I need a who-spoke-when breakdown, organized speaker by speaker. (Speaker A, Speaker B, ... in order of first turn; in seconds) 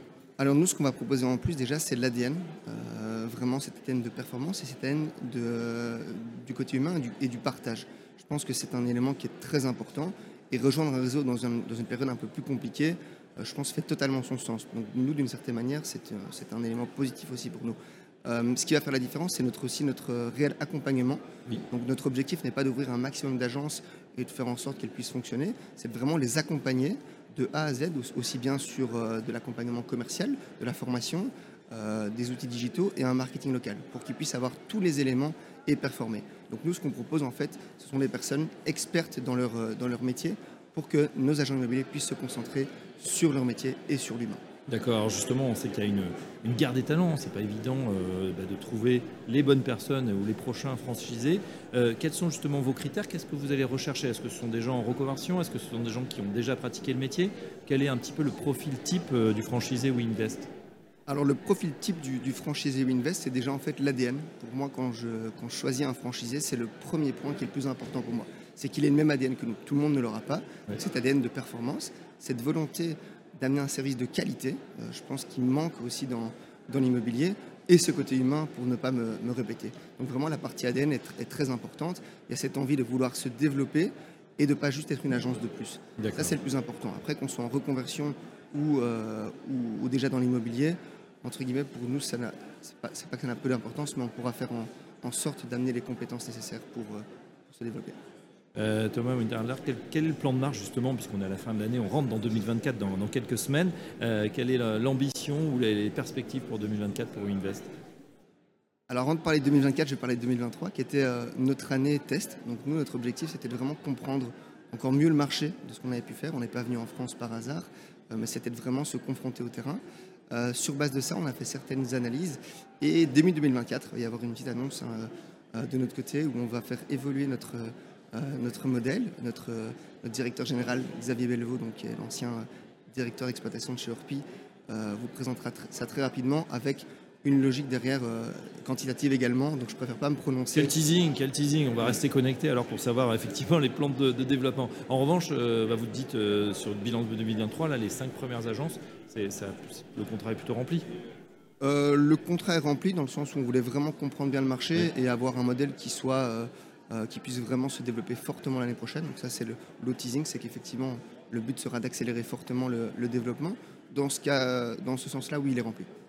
Speaker A: 0.4-44.4, 61.1-98.0, 108.9-140.8, 151.6-165.9
Speaker B: 44.7-60.5, 86.0-86.4, 98.5-107.7, 140.5-150.9